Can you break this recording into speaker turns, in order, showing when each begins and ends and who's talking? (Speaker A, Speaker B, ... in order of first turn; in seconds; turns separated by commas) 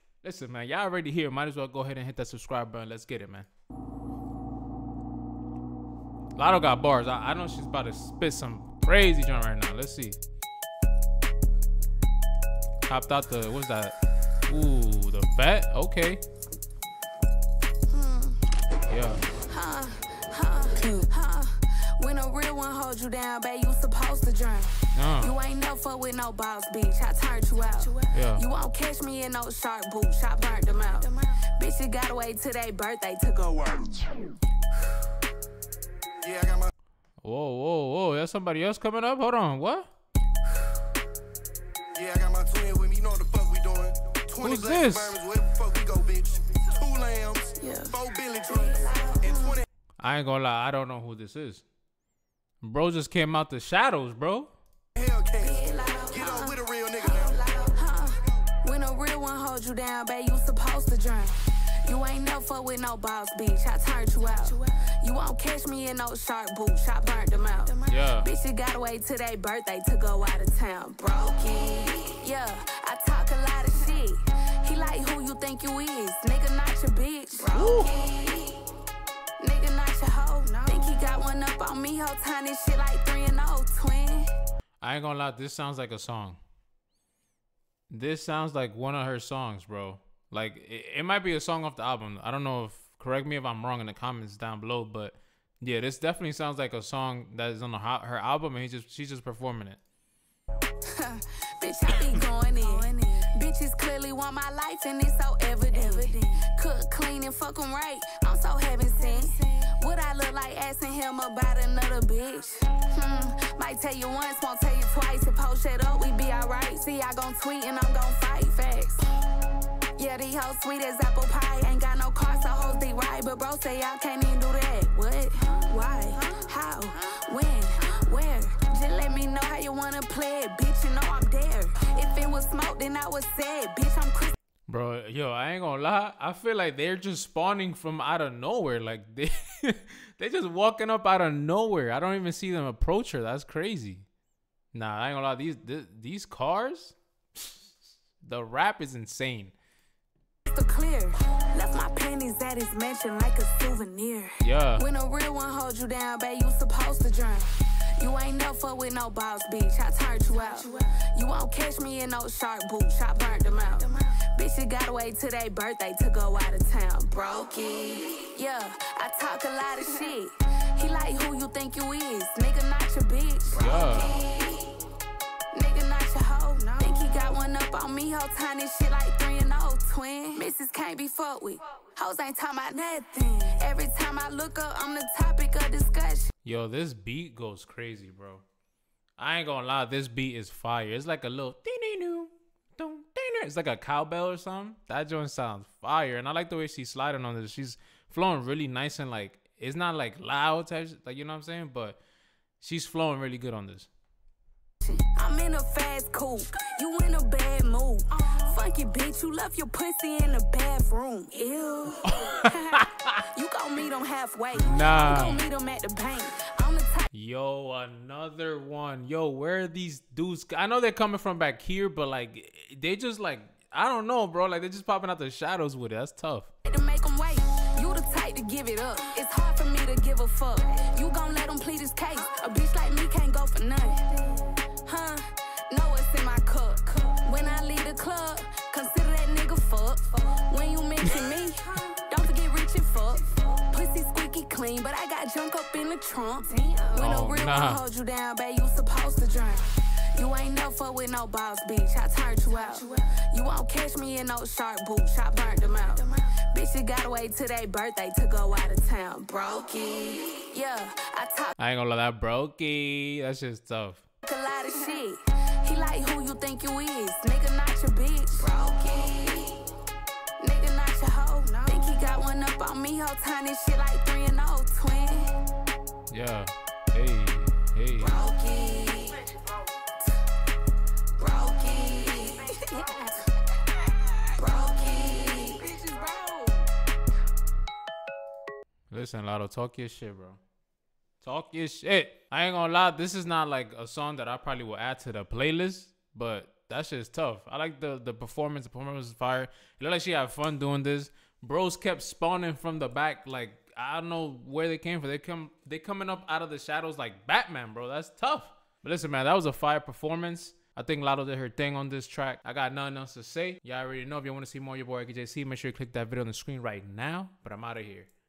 Speaker A: 0.2-3.5, Speaker A: 6.3-10.2, Speaker A: 12.9-13.9, Speaker A: 14.5-16.2, Speaker B: 17.9-18.4, Speaker A: 18.9-19.2, Speaker B: 19.4-34.1, Speaker A: 24.9-25.3, Speaker A: 28.1-28.4, Speaker C: 36.2-36.7, Speaker A: 37.2-39.9, Speaker C: 41.9-49.6, Speaker A: 44.4-45.2, Speaker B: 47.6-49.6, Speaker A: 50.0-51.6, Speaker A: 52.6-54.5, Speaker C: 55.0-57.4, Speaker B: 55.4-78.6, Speaker A: 67.8-68.3, Speaker A: 77.5-78.0, Speaker B: 79.4-84.3, Speaker A: 84.8-86.4, Speaker A: 87.9-99.8, Speaker B: 100.8-119.1, Speaker B: 120.0-134.3, Speaker A: 134.7-144.0, Speaker A: 144.7-146.9, Speaker A: 148.2-149.5, Speaker B: 150.5-174.6, Speaker A: 154.4-154.8, Speaker A: 173.5-174.2, Speaker B: 175.5-186.3, Speaker A: 186.4-188.4, Speaker A: 189.2-202.0, Speaker A: 202.6-203.9, Speaker B: 204.8-217.1, Speaker A: 212.0-213.2, Speaker A: 214.5-215.4, Speaker A: 217.1-226.5, Speaker B: 226.6-261.5, Speaker A: 247.0-247.8, Speaker A: 261.6-264.0, Speaker B: 264.2-269.6, Speaker B: 270.4-275.3, Speaker A: 276.1-278.2, Speaker B: 278.0-279.4, Speaker B: 281.2-286.7, Speaker A: 288.9-290.4, Speaker A: 291.2-318.1